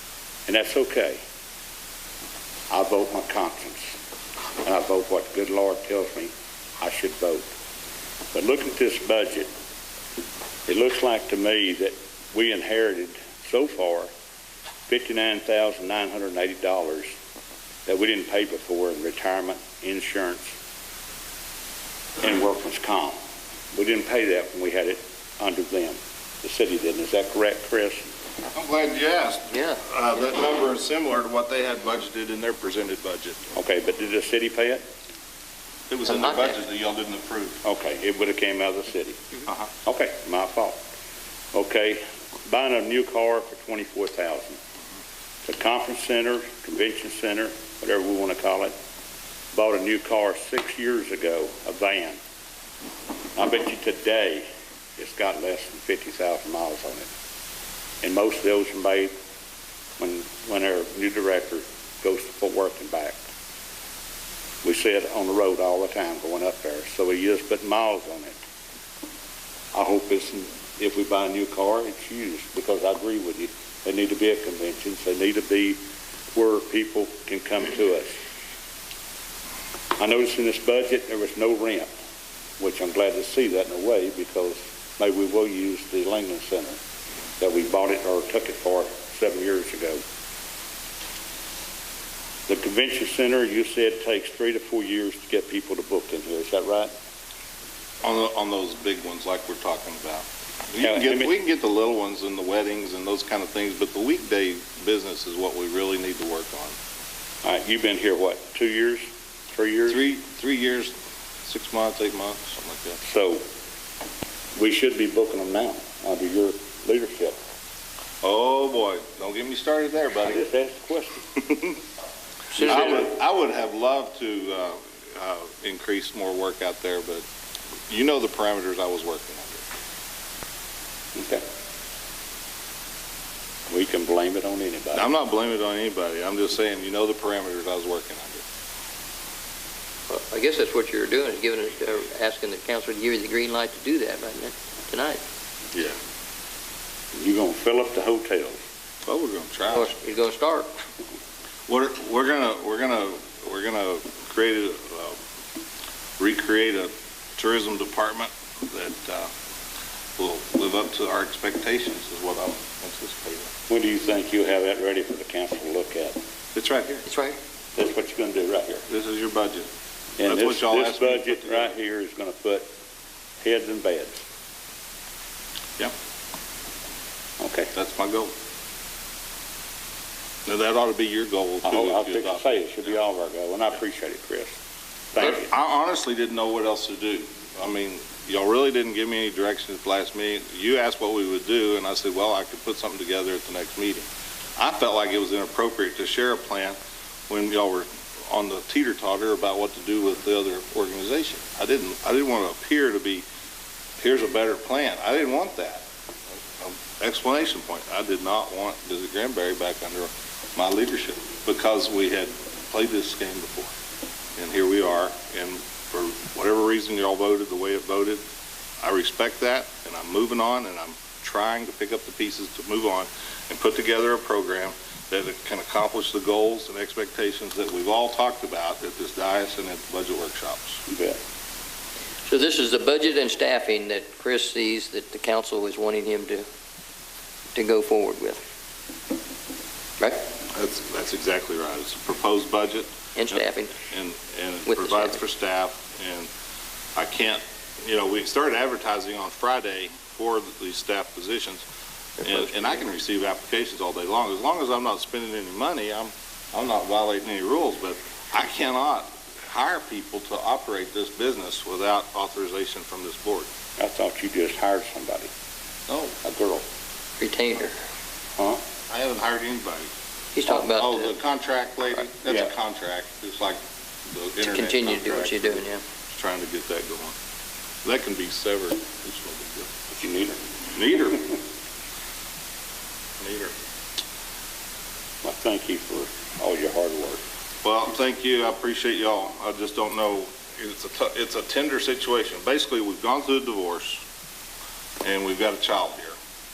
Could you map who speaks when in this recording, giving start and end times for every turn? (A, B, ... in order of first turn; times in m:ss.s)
0:00.5-0:01.2 A
0:02.7-0:03.9 A
0:04.6-0:07.5 A
0:08.3-0:09.5 A
0:10.6-0:14.1 A
0:14.9-0:17.2 A
0:17.8-0:20.6 A
0:22.2-0:23.2 A
0:23.7-0:28.1 A
0:28.5-0:33.4 B
0:29.5-0:29.8 C
0:33.5-0:34.8 A
0:35.9-0:37.6 B
0:36.0-0:36.6 C
0:37.6-0:39.2 A
0:39.8-0:40.8 A
0:41.5-0:44.6 A
0:45.4-0:48.7 A
0:49.5-0:52.2 A
0:53.4-0:54.4 A
0:55.0-0:57.1 A
0:58.0-0:59.1 A
1:00.0-1:03.2 A
1:04.6-1:08.4 A
1:09.7-1:15.8 A
1:16.3-1:18.2 A
1:20.0-1:21.9 A
1:22.6-1:26.8 A
1:27.4-1:30.0 A
1:32.5-1:36.9 A
1:38.0-1:46.8 B
1:40.8-1:41.3 A
1:47.4-1:50.0 A
1:49.9-1:53.0 B
1:53.0-1:53.4 A
1:54.6-1:57.4 A
1:58.2-2:00.4 B
2:00.2-2:01.2 A
2:01.4-2:01.8 B
2:02.5-2:03.0 C
2:02.6-2:07.2 B
2:02.6-2:03.0 A
2:07.9-2:09.6 B
2:11.1-2:11.4 A
2:13.7-2:15.1 A
2:14.9-2:18.4 B
2:20.1-2:25.2 C
2:27.1-2:28.6 A
2:29.0-2:29.9 B
2:29.7-2:30.7 C
2:31.7-2:35.2 B
2:36.2-2:39.3 B
2:40.2-2:43.5 B
2:43.7-2:46.2 A
2:46.5-2:47.0 B
2:47.0-2:47.4 C
2:47.8-2:48.8 A
2:48.9-2:49.7 B
2:50.2-2:52.7 A
2:50.2-2:51.7 B
2:53.4-2:54.2 A
2:57.4-2:57.7 A
2:57.7-2:58.3 B
3:00.4-3:03.0 B
3:01.6-3:04.6 A
3:05.1-3:05.5 A
3:05.2-3:16.8 B
3:17.3-3:23.2 B
3:24.0-3:25.8 B
3:26.6-3:33.7 B
3:34.4-3:38.2 B
3:38.8-3:50.8 B
3:50.9-3:51.2 A
3:52.3-3:56.4 C
3:57.5-3:58.4 C
4:00.5-4:06.3 B
4:03.2-4:03.8 C
4:04.6-4:05.2 C
4:06.9-4:11.6 B
4:12.2-4:23.5 B
4:23.8-4:25.3 A
4:25.9-4:26.2 B
4:26.2-4:26.6 A
4:27.2-4:27.7 C
4:28.9-4:29.9 B
4:30.3-4:31.1 C
4:30.5-4:33.6 B
4:34.1-4:37.1 B
4:34.4-4:35.8 C
4:37.8-4:39.7 B
4:39.9-4:40.4 A
4:40.7-4:41.2 B
4:43.2-4:43.5 B
4:45.2-4:47.2 A
4:47.6-4:54.0 B
4:55.0-4:56.1 B